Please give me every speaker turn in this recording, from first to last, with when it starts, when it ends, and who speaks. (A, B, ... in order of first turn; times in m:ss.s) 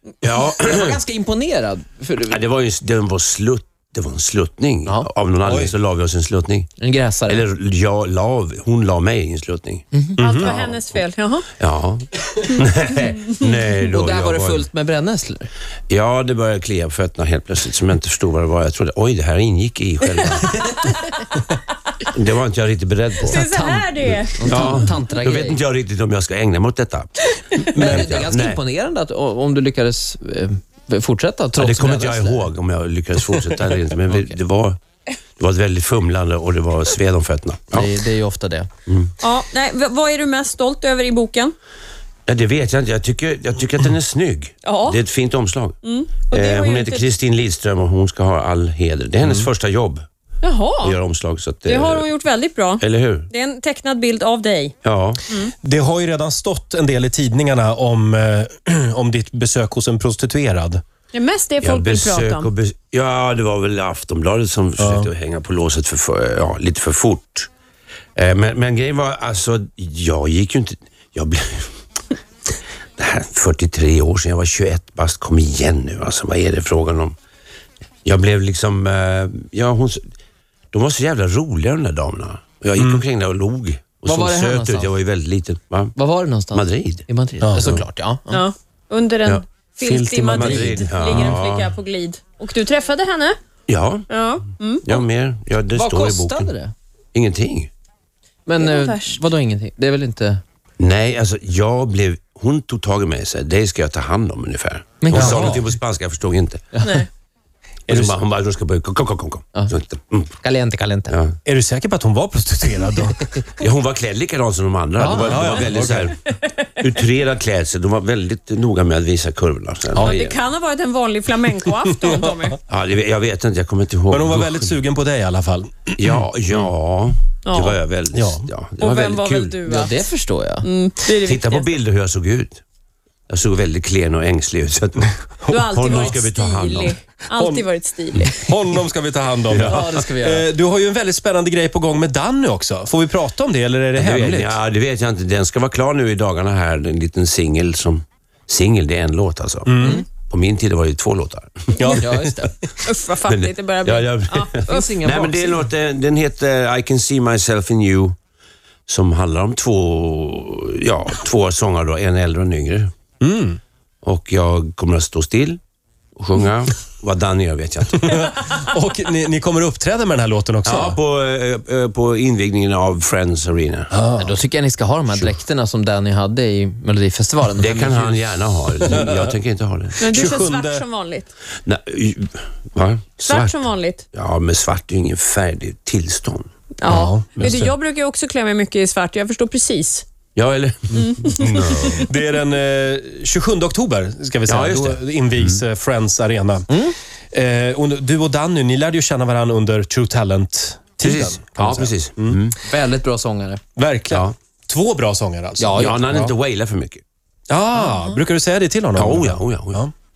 0:00.2-0:01.0 A
0:00.5-0:02.4 B
0:02.2-0:06.7 A
0:05.4-0:05.7 C
0:06.8-0:07.4 B
0:07.3-0:09.8 A
0:09.9-0:10.3 B
0:10.2-0:10.5 C
0:10.2-0:11.5 D
0:10.4-0:11.0 A
0:11.6-0:14.7 A
0:13.8-0:15.5 B
0:15.9-0:20.6 A
0:20.6-0:21.0 D
0:22.1-0:23.4 A
0:23.2-0:25.6 B
0:23.3-0:24.5 D
0:24.4-0:28.6 A
0:27.3-0:27.9 D
0:27.8-0:32.5 B
0:27.8-0:28.1 C
0:31.6-0:34.8 A
0:34.1-0:34.4 B
0:35.4-0:37.9 A
0:37.7-0:38.7 B
0:38.9-0:39.1 A
0:39.2-0:41.5 D
0:42.3-0:45.8 A
0:44.6-0:45.0 D
0:45.8-0:47.1 D
0:46.3-0:50.1 A
0:50.4-0:51.0 D
0:50.8-0:52.1 A
0:51.7-0:54.8 D
0:52.8-0:53.3 A
0:54.8-0:55.2 A
0:55.6-1:00.8 C
1:01.1-1:02.5 D
1:01.6-1:07.5 A
1:04.8-1:05.1 C
1:08.2-1:11.7 A
1:13.0-1:17.2 A
1:18.0-1:20.0 A
1:20.7-1:26.0 A
1:24.0-1:25.0 B
1:26.0-1:28.4 B
1:26.5-1:27.1 A
1:27.4-1:27.8 C
1:28.3-1:33.4 D
1:29.9-1:30.9 C
1:30.2-1:31.7 A
1:30.4-1:30.8 B
1:33.7-1:34.1 A
1:34.1-1:35.0 D
1:34.8-1:36.5 A
1:35.7-1:36.7 B
1:37.1-1:37.7 A
1:38.5-1:40.4 B
1:38.6-1:39.2 D
1:40.8-1:46.6 A
1:45.0-1:45.7 B
1:45.1-1:45.6 C
1:46.7-1:47.0 B
1:46.8-1:47.1 D
1:47.9-1:50.4 A
1:47.9-1:48.2 C
1:50.4-1:51.2 B
1:51.1-1:51.4 A
1:51.4-1:53.3 C
1:53.6-1:56.2 A
1:55.0-1:55.8 B
1:55.2-1:56.2 C
1:56.8-2:00.4 A
1:59.9-2:00.2 B
2:00.0-2:02.6 D
2:02.7-2:04.8 A
2:04.1-2:06.2 C
2:06.0-2:09.6 A
2:07.4-2:07.8 D
2:08.1-2:08.5 C
2:08.8-2:10.0 D
2:09.6-2:10.7 B
2:10.6-2:11.7 D
2:11.2-2:12.6 A
2:13.3-2:17.0 A
2:15.4-2:16.2 C
2:15.5-2:18.4 D
2:17.3-2:17.6 C
2:18.2-2:24.6 C
2:19.5-2:20.0 A
2:19.6-2:20.5 B
2:24.0-2:32.1 A
2:29.7-2:30.0 C
2:29.8-2:30.1 B
2:31.8-2:32.5 C
2:32.0-2:32.6 B
2:32.8-2:35.0 D
2:33.2-2:38.2 A
2:34.7-2:35.7 B
2:38.9-2:42.9 A
2:43.2-2:43.6 C
2:44.0-2:45.6 A
2:46.2-2:48.1 A
2:48.0-2:51.0 C
2:50.6-2:53.9 A
2:53.9-2:54.4 C
2:54.2-2:58.1 B
2:57.6-3:00.1 A
3:00.0-3:01.3 D
3:00.0-3:00.8 C
3:01.6-3:06.5 A
3:03.2-3:04.0 D
3:06.8-3:10.0 D
3:06.9-3:07.7 C
3:10.4-3:12.1 A
3:10.9-3:12.1 D
3:11.9-3:16.8 C
3:14.5-3:15.6 A
3:16.7-3:17.0 B
3:17.3-3:22.4 C
3:21.0-3:22.6 A
3:22.6-3:23.6 B
3:23.8-3:26.3 C
3:25.6-3:26.0 B
3:25.8-3:27.0 A
3:27.5-3:29.9 C
3:29.0-3:29.8 A